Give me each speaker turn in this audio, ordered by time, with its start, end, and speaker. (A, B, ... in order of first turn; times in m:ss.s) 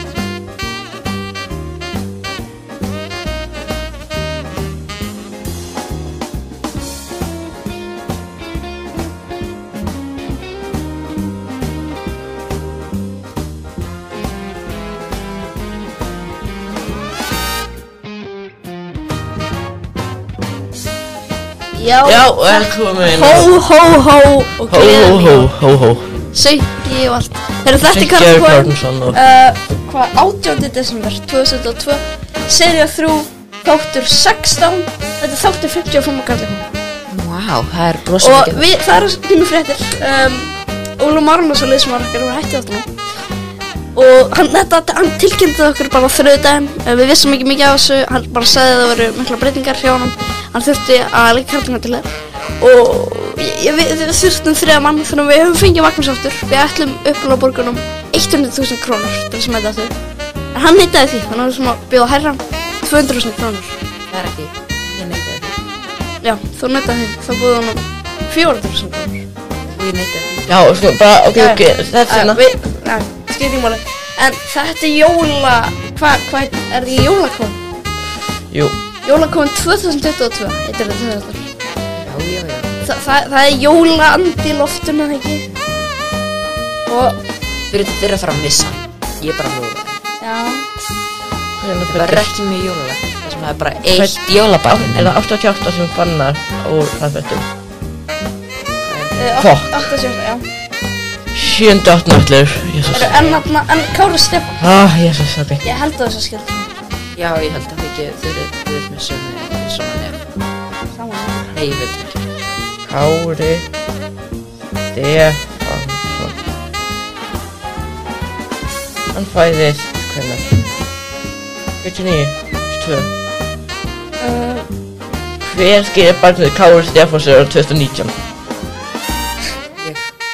0:21.7-0:25.5 A
0:22.0-0:23.5 B
0:24.7-0:26.1 B
0:26.3-0:36.7 A
0:27.8-0:29.2 B
0:37.1-0:38.7 C
0:38.2-0:42.9 A
0:44.0-0:59.9 A
1:00.5-1:03.8 A
1:04.1-1:05.6 C
1:06.2-1:09.3 A
1:09.7-1:10.6 C
1:10.5-1:12.4 B
1:11.4-1:17.6 A
1:18.5-1:18.8 B
1:19.0-1:21.5 A
1:22.0-1:22.7 C
1:22.8-1:25.5 A
1:26.9-1:27.2 A
1:27.7-1:30.0 C
1:30.2-1:30.6 A
1:31.6-1:32.3 B
1:31.9-1:35.2 C
1:33.9-1:37.5 B
1:38.8-1:39.5 C
1:39.2-1:40.4 A
1:39.4-1:39.7 B
1:41.3-1:43.2 B
1:42.8-1:43.4 C
1:42.9-1:44.7 A
1:44.6-1:45.6 B
1:45.6-1:46.7 A
1:47.2-1:50.3 C
1:51.0-1:51.5 A
1:51.5-1:52.6 C
1:52.9-1:53.7 B
1:54.9-1:56.4 B
1:59.1-2:00.5 B
2:01.8-2:03.1 B
2:04.2-2:04.7 A
2:05.4-2:08.1 B
2:09.8-2:10.1 C